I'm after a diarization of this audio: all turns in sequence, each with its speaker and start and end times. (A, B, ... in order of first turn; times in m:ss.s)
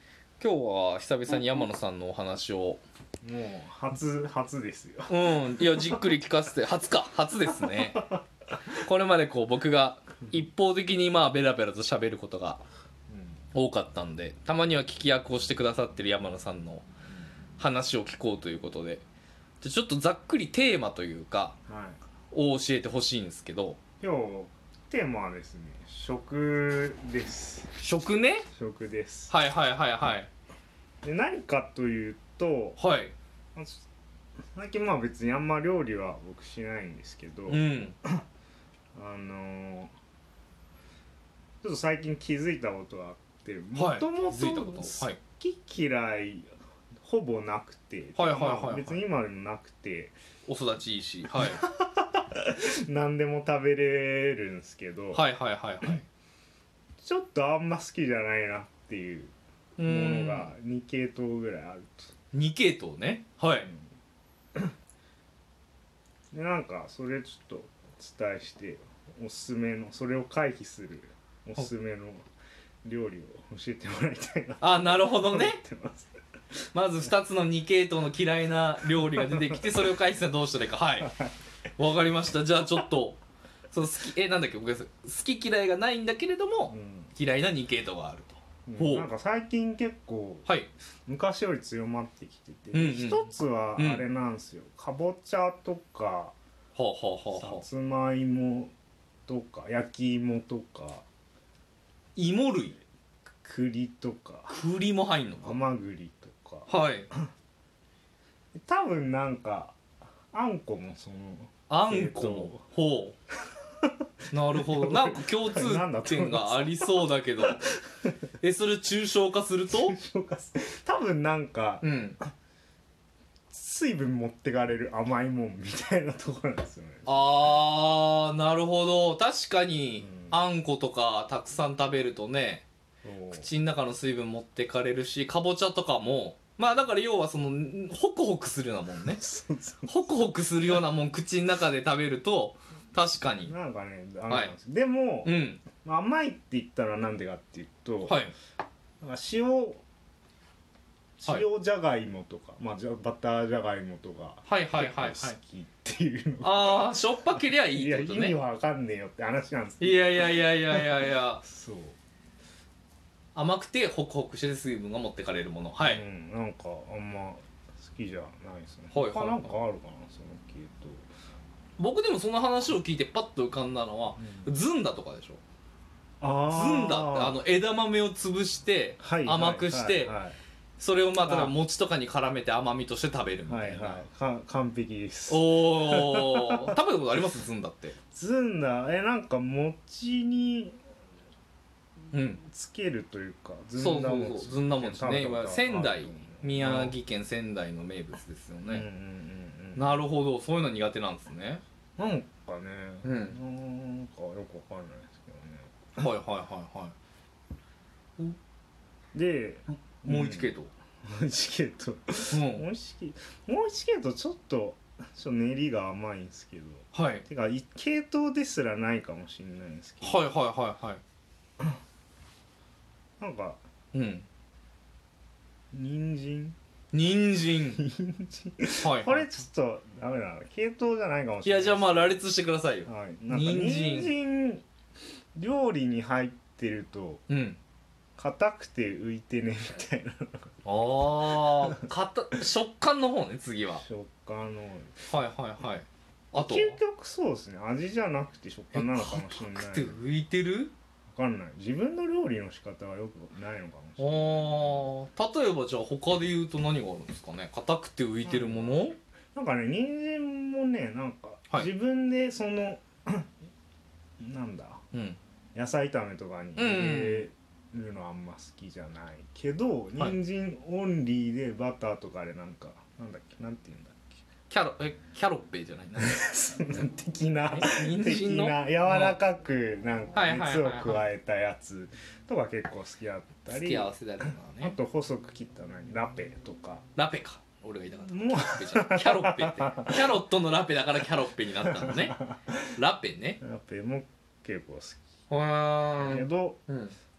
0:00.4-0:02.8 A
0:03.2-0:06.2 B
0:05.1-0:08.1 A
0:07.5-0:07.9 B
0:08.8-0:12.6 A
0:13.1-0:13.4 B
0:13.5-0:16.8 A
0:17.6-0:19.0 A
0:19.6-0:21.6 A
0:21.7-0:22.0 B
0:22.3-0:23.8 A
0:24.0-0:27.8 B
0:27.8-0:28.4 A
0:28.6-0:29.3 B
0:29.3-0:30.3 A
0:31.0-0:32.8 B
0:32.8-0:33.1 A
0:33.6-0:33.8 B
0:34.6-0:38.2 B
0:37.5-0:38.0 A
0:39.0-0:39.9 B
0:41.6-0:46.5 B
0:43.8-0:45.2 A
0:47.0-0:50.1 B
0:48.2-0:49.0 A
0:50.5-0:51.6 A
0:51.3-0:55.2 B
0:55.1-0:56.1 A
0:57.0-1:02.1 B
0:59.8-1:00.5 A
1:02.3-1:03.7 A
1:06.3-1:12.3 B
1:12.8-1:16.1 B
1:14.6-1:15.6 A
1:16.7-1:21.1 A
1:19.0-1:19.6 B
1:21.0-1:21.3 B
1:21.8-1:23.2 A
1:23.7-1:29.1 A
1:26.7-1:27.1 B
1:28.7-1:30.5 B
1:31.1-1:36.4 B
1:32.7-1:34.0 A
1:36.8-1:37.6 A
1:37.3-1:38.7 B
1:39.3-1:41.0 B
1:42.2-1:42.8 A
1:43.4-1:44.6 B
1:44.5-1:45.6 A
1:45.4-1:47.3 B
1:46.7-1:47.1 A
1:48.6-1:49.8 B
1:50.3-1:52.6 B
1:51.7-1:53.2 A
1:54.3-1:57.7 A
1:54.5-1:58.1 B
1:58.4-2:00.0 A
1:59.7-2:02.3 B
2:01.8-2:02.2 A
2:03.5-2:07.6 B
2:07.1-2:12.6 A
2:10.0-2:10.4 B
2:13.0-2:13.5 B
2:13.4-2:19.2 A
2:19.1-2:19.9 B
2:19.9-2:23.5 A
2:23.4-2:28.2 B
2:25.2-2:25.6 A
2:28.1-2:28.3 A
2:29.0-2:29.8 B
2:31.2-2:37.0 B
2:34.5-2:35.4 A
2:36.4-2:38.4 A
2:37.7-2:42.0 B
2:39.8-2:41.4 A
2:43.4-2:46.0 A
2:45.8-2:51.1 B
2:48.9-2:49.5 A
2:51.8-2:55.4 A
2:54.2-2:54.6 B
2:56.2-2:57.4 B
2:56.5-3:00.2 A
2:59.0-3:00.4 B
3:00.8-3:04.0 A
3:01.2-3:01.6 B
3:03.5-3:06.8 B
3:05.3-3:08.0 A
3:08.1-3:10.8 B
3:12.1-3:12.4 A
3:12.3-3:17.0 B
3:13.8-3:18.9 A
3:18.7-3:20.0 B
3:19.8-3:21.6 A
3:22.0-3:26.1 B
3:23.0-3:23.4 A
3:26.0-3:27.0 A
3:29.1-3:40.3 B
3:30.1-3:30.7 A
3:32.3-3:32.6 A
3:36.9-3:37.2 A
3:40.0-3:41.0 A
3:43.2-3:43.6 B
3:43.9-3:44.3 A
3:45.7-3:46.6 B
3:46.9-3:47.8 A
3:47.8-3:52.2 B
3:48.8-3:49.3 A
3:51.4-3:54.1 A
3:52.9-3:54.6 B
3:55.4-3:57.2 B
3:57.3-3:57.6 A
3:58.2-4:00.5 B
4:00.6-4:03.8 A
4:01.0-4:01.9 B
4:03.8-4:05.0 B
4:05.1-4:06.8 A
4:06.4-4:10.0 B
4:08.7-4:10.7 A
4:11.1-4:14.9 B
4:14.0-4:19.0 A
4:18.2-4:23.3 B
4:24.2-4:24.8 B
4:24.9-4:25.2 A
4:25.6-4:34.2 B
4:26.6-4:27.3 A
4:34.5-4:36.2 A
4:36.0-4:46.8 B
4:37.5-4:39.2 A
4:40.1-4:41.1 A
4:43.5-4:44.8 A
4:47.0-4:52.2 A
4:48.0-4:50.2 B
4:51.6-4:52.7 B
4:52.7-4:53.4 A
4:53.4-4:55.0 B
4:55.3-4:57.0 A
4:56.0-4:56.6 B